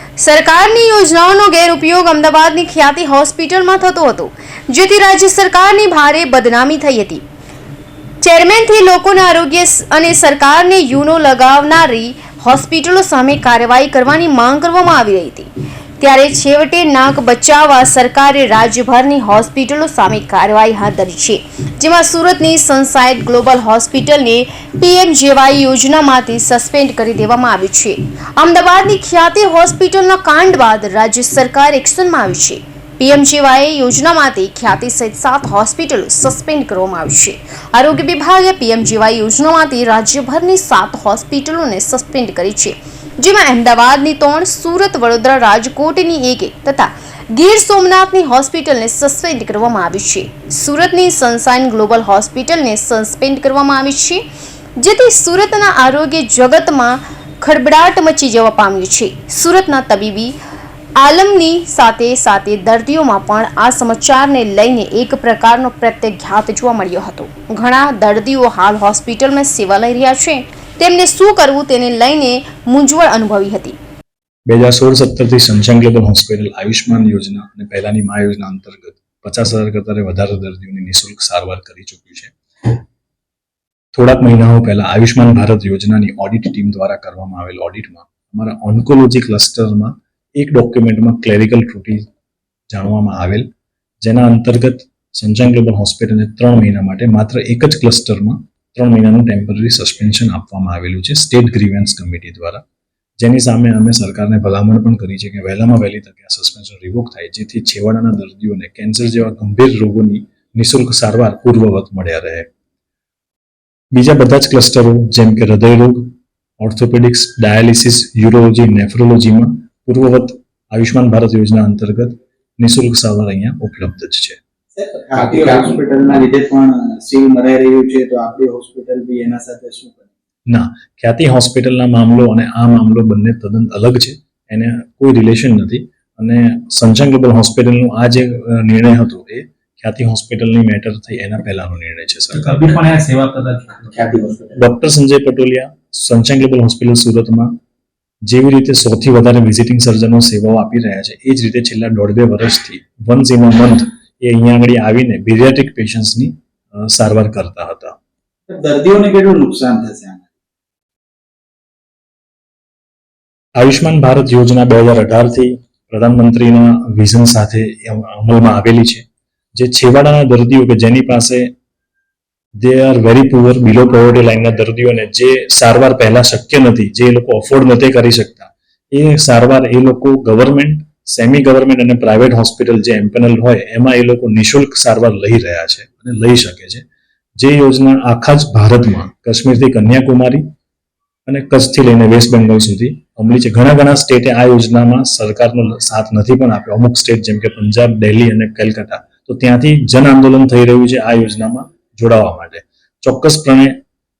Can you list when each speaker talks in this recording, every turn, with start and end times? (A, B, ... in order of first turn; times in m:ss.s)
0:00.2-0:07.2 A
0:08.2-0:54.2 A
0:54.8-1:00.3 A
1:01.0-1:13.8 A
1:14.5-1:22.3 B
1:23.9-1:32.0 B
1:32.7-1:33.4 B
1:34.0-1:42.6 B
1:43.2-1:52.5 B
1:53.9-2:04.4 B
2:04.7-2:10.0 C
2:05.2-2:05.6 D
2:10.5-2:22.6 B
2:22.4-2:24.5 D
2:24.6-2:27.5 B
2:28.3-2:37.9 B
2:38.5-2:40.3 C
2:43.6-2:51.5 B
2:52.6-3:06.8 B
3:07.4-3:10.4 B
3:11.2-3:23.8 B